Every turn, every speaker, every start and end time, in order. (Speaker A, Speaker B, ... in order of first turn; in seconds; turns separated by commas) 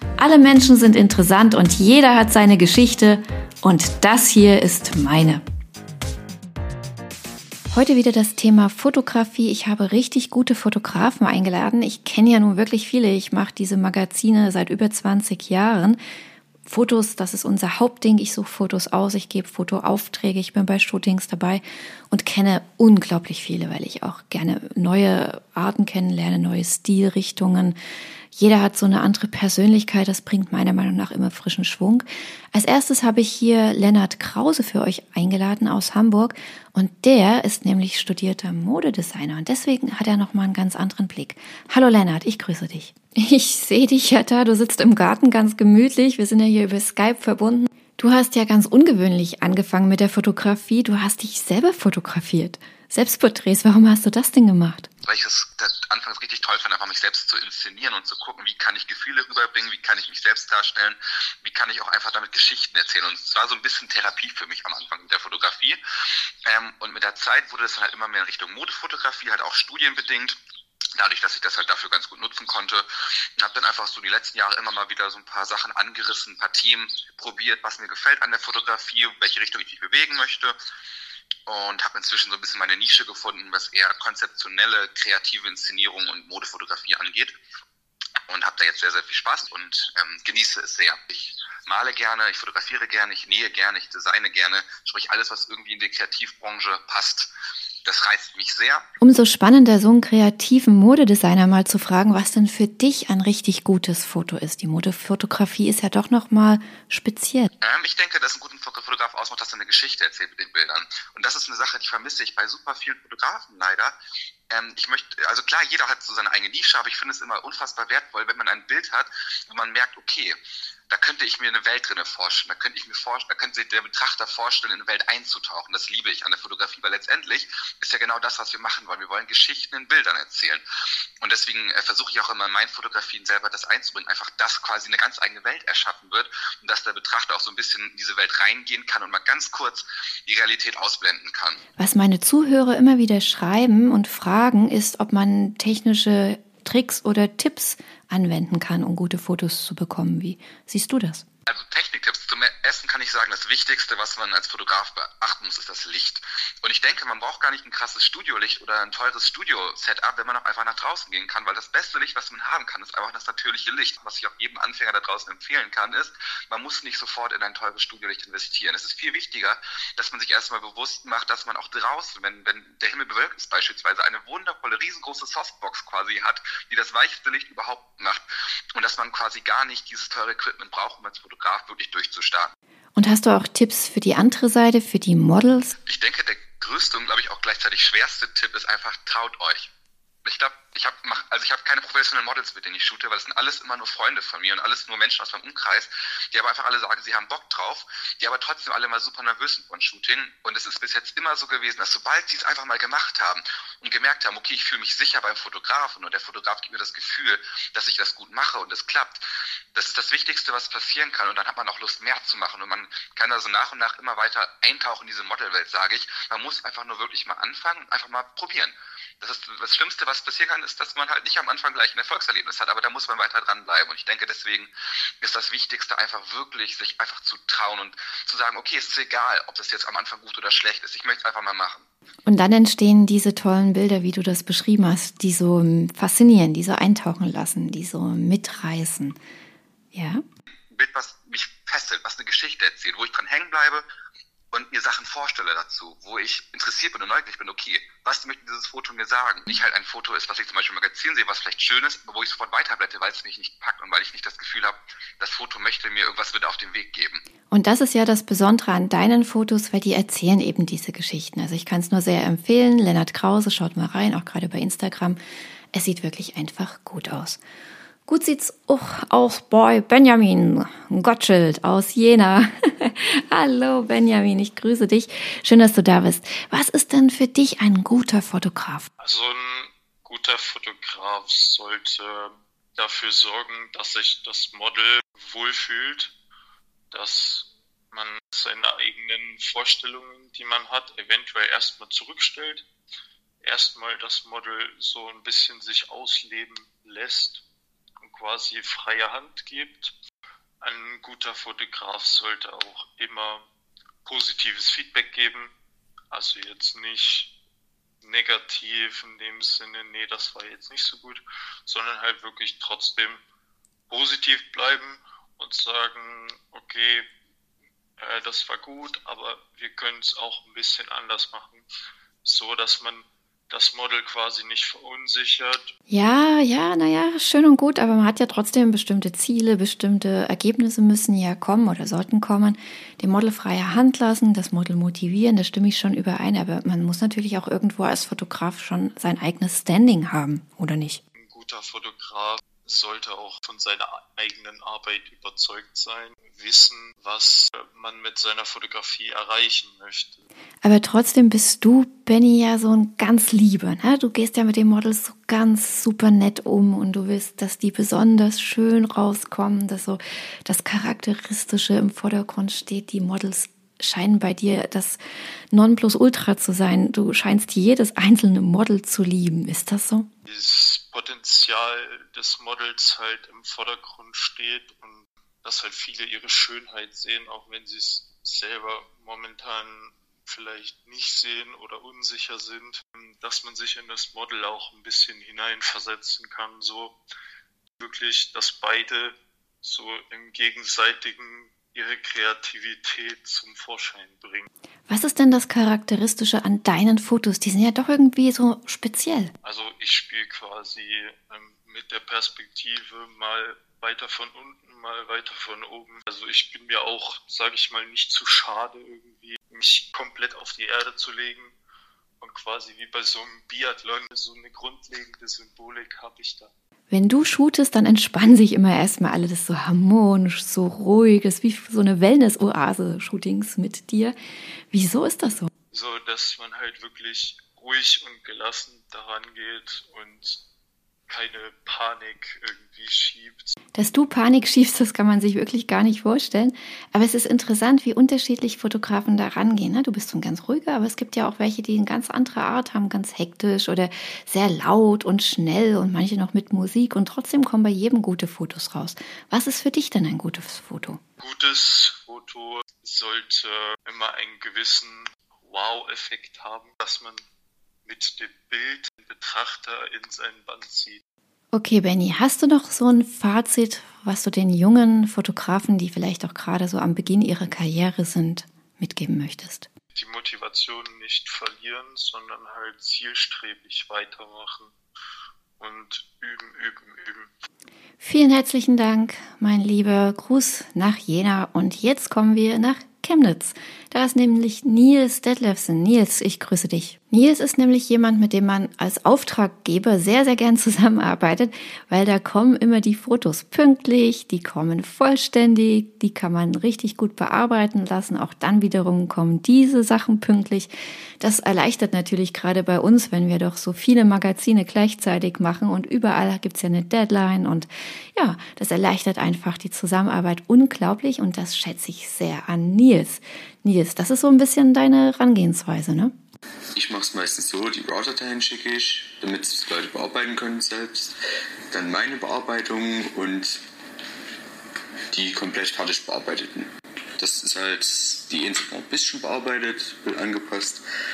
Speaker A: 0.2-5.4, Speaker A: 7.7-16.0, Speaker A: 16.7-27.8, Speaker A: 28.3-54.9, Speaker B: 55.0-65.8, Speaker B: 66.5-70.4, Speaker B: 71.0-80.6, Speaker B: 81.5-87.3, Speaker B: 88.3-97.3, Speaker B: 97.8-98.9, Speaker A: 99.0-107.5, Speaker B: 107.6-113.9, Speaker B: 114.5-120.4, Speaker B: 120.9-130.6, Speaker B: 131.2-141.6, Speaker A: 141.8-151.2, Speaker B: 151.5-182.5, Speaker A: 182.9-185.7, Speaker B: 185.9-189.7, Speaker B: 190.2-231.8, Speaker A: 232.3-239.2, Speaker A: 239.9-240.2, Speaker B: 240.7-243.8, Speaker B: 244.5-257.2, Speaker A: 257.5-265.2, Speaker A: 265.7-267.4, Speaker A: 268.1-278.9, Speaker C: 279.0-286.1, Speaker C: 286.9-292.6, Speaker C: 293.4-297.4, Speaker C: 298.0-299.9, Speaker C: 300.6-303.5, Speaker C: 304.1-305.5, Speaker C: 306.1-307.3, Speaker C: 308.0-313.2, Speaker C: 313.9-317.1, Speaker C: 318.0-321.7, Speaker C: 322.2-325.7, Speaker A: 325.9-341.0, Speaker C: 341.2-350.2, Speaker A: 350.6-365.0, Speaker A: 365.5-370.1, Speaker C: 370.3-387.0, Speaker C: 387.8-394.5, Speaker A: 394.9-399.3, Speaker C: 399.4-411.6, Speaker C: 412.2-416.5, Speaker A: 416.9-424.2, Speaker A: 424.7-425.5, Speaker C: 425.7-430.4, Speaker C: 431.1-433.6, Speaker A: 433.8-451.0, Speaker C: 451.2-457.2, Speaker C: 457.9-461.0, Speaker A: 461.5-469.7, Speaker C: 469.9-474.7, Speaker C: 475.6-477.3, Speaker A: 478.0-516.1, Speaker D: 516.8-521.2, Speaker D: 521.7-523.6, Speaker D: 525.1-530.8